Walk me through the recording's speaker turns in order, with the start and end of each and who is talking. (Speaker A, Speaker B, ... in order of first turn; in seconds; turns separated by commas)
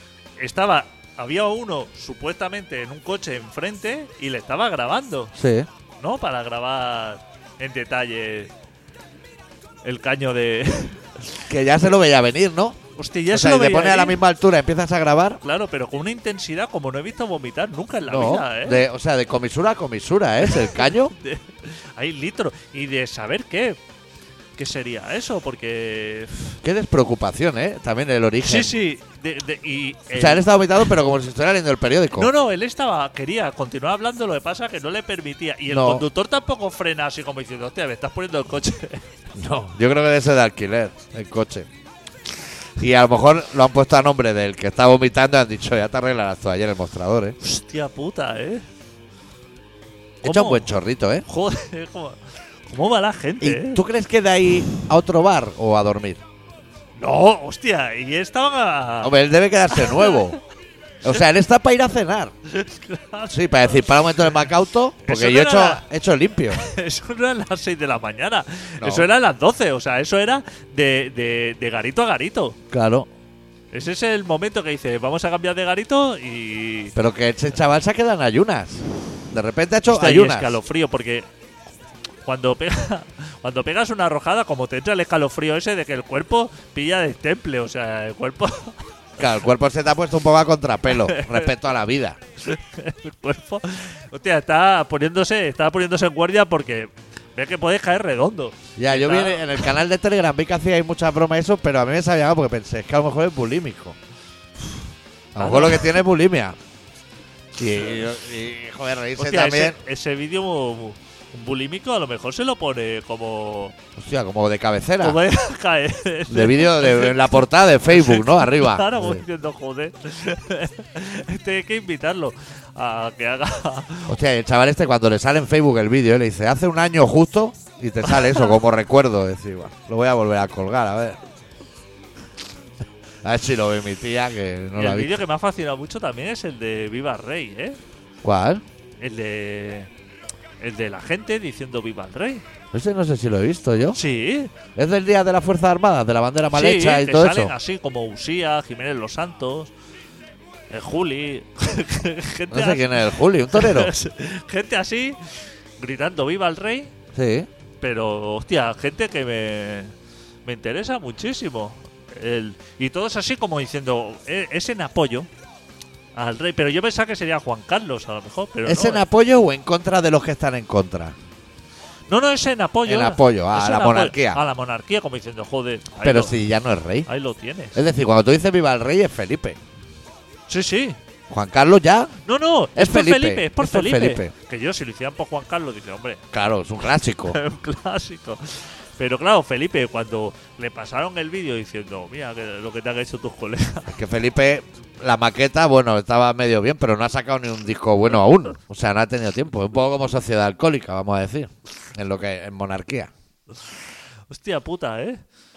Speaker A: 0.4-5.3, Speaker B: 5.3-5.7, Speaker A: 6.0-8.5, Speaker A: 9.8-11.2, Speaker B: 11.5-12.8, Speaker A: 13.0-14.2, Speaker B: 13.3-15.4, Speaker A: 15.4-18.8, Speaker B: 18.1-21.1, Speaker A: 20.5-23.8, Speaker A: 24.6-26.6, Speaker B: 26.6-28.8, Speaker A: 28.4-30.9, Speaker B: 30.1-32.3, Speaker A: 32.1-39.0, Speaker B: 35.7-36.0, Speaker B: 39.4-41.7, Speaker B: 42.8-47.4, Speaker A: 47.4-48.6, Speaker B: 50.2-51.2, Speaker A: 50.2-50.7, Speaker A: 51.3-53.8, Speaker B: 53.4-56.2, Speaker A: 57.0-59.1, Speaker B: 59.0-60.4, Speaker A: 59.7-60.4, Speaker B: 61.0-62.3, Speaker A: 62.5-63.9, Speaker B: 63.3-66.6, Speaker A: 65.0-65.8, Speaker A: 66.5-72.6, Speaker B: 68.8-69.1, Speaker B: 72.7-73.1, Speaker A: 73.7-76.9, Speaker B: 77.0-80.6, Speaker A: 79.9-81.3, Speaker A: 82.2-88.8, Speaker B: 89.2-92.2, Speaker A: 90.9-91.5, Speaker A: 92.4-99.7, Speaker B: 98.8-104.0, Speaker B: 105.3-106.6, Speaker A: 105.4-106.0, Speaker B: 107.6-109.8, Speaker A: 109.2-113.8, Speaker B: 114.0-115.2, Speaker A: 115.0-124.2, Speaker B: 116.3-119.2, Speaker B: 124.1-131.2, Speaker A: 128.1-128.4, Speaker B: 133.2-135.2, Speaker A: 134.8-137.8, Speaker B: 138.2-138.6, Speaker A: 139.0-139.9, Speaker A: 140.6-142.4, Speaker B: 142.7-144.0, Speaker A: 143.9-144.5, Speaker B: 144.8-147.5, Speaker A: 146.5-149.7, Speaker A: 150.7-156.9, Speaker B: 152.5-153.9, Speaker B: 157.1-157.5, Speaker A: 157.8-159.9, Speaker A: 160.4-165.3, Speaker A: 166.2-169.1, Speaker B: 168.7-171.2, Speaker A: 172.1-176.4, Speaker B: 172.9-174.4, Speaker B: 176.0-177.1, Speaker A: 177.1-177.8, Speaker B: 177.8-179.6, Speaker A: 180.5-181.0, Speaker B: 181.3-182.2, Speaker A: 182.3-186.2, Speaker B: 182.8-184.3, Speaker B: 186.3-187.4, Speaker A: 187.2-194.0, Speaker B: 193.9-203.1, Speaker A: 204.3-205.2